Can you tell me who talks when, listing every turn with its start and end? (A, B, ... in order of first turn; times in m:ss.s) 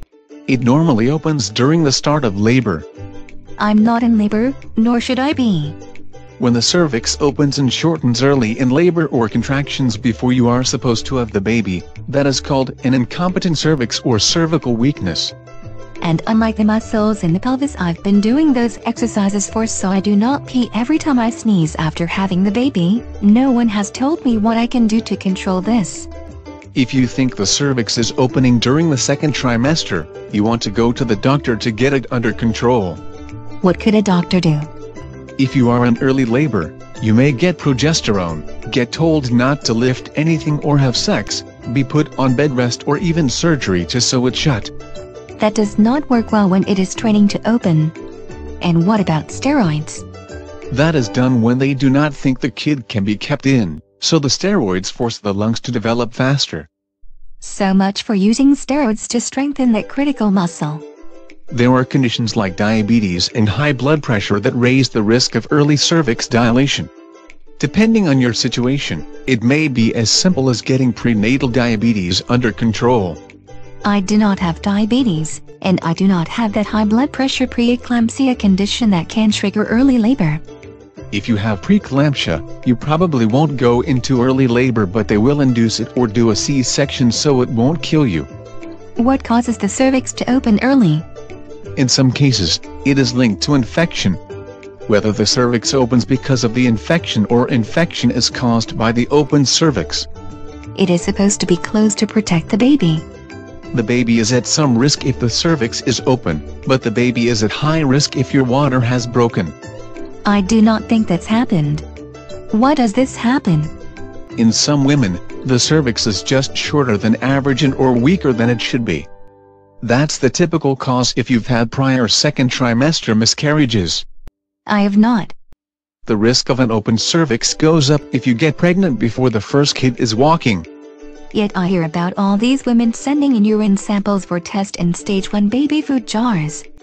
0:00.5-0:02.8 A
0:03.6-0:05.8 B
0:06.4-0:15.3 A
0:16.0-0:26.1 B
0:26.7-0:33.0 A
0:33.6-0:34.7 B
0:35.4-0:44.7 A
0:45.4-0:47.9 B
0:48.6-0:50.0 B
0:50.7-0:56.7 A
0:57.4-1:00.8 B
1:01.5-1:06.9 A
1:07.6-1:13.2 A
1:13.8-1:20.4 B
1:21.1-1:28.3 A
1:29.0-1:31.0 B
1:31.8-1:34.2 A
1:34.9-1:40.1 A
1:40.7-1:43.0 B
1:43.7-1:49.5 A
1:50.2-1:51.8 B
1:52.5-1:53.7 B
1:54.4-1:59.1 A
1:59.8-2:04.0 A
2:04.6-2:05.3 B
2:06.0-2:10.7 A
2:11.3-2:16.6 B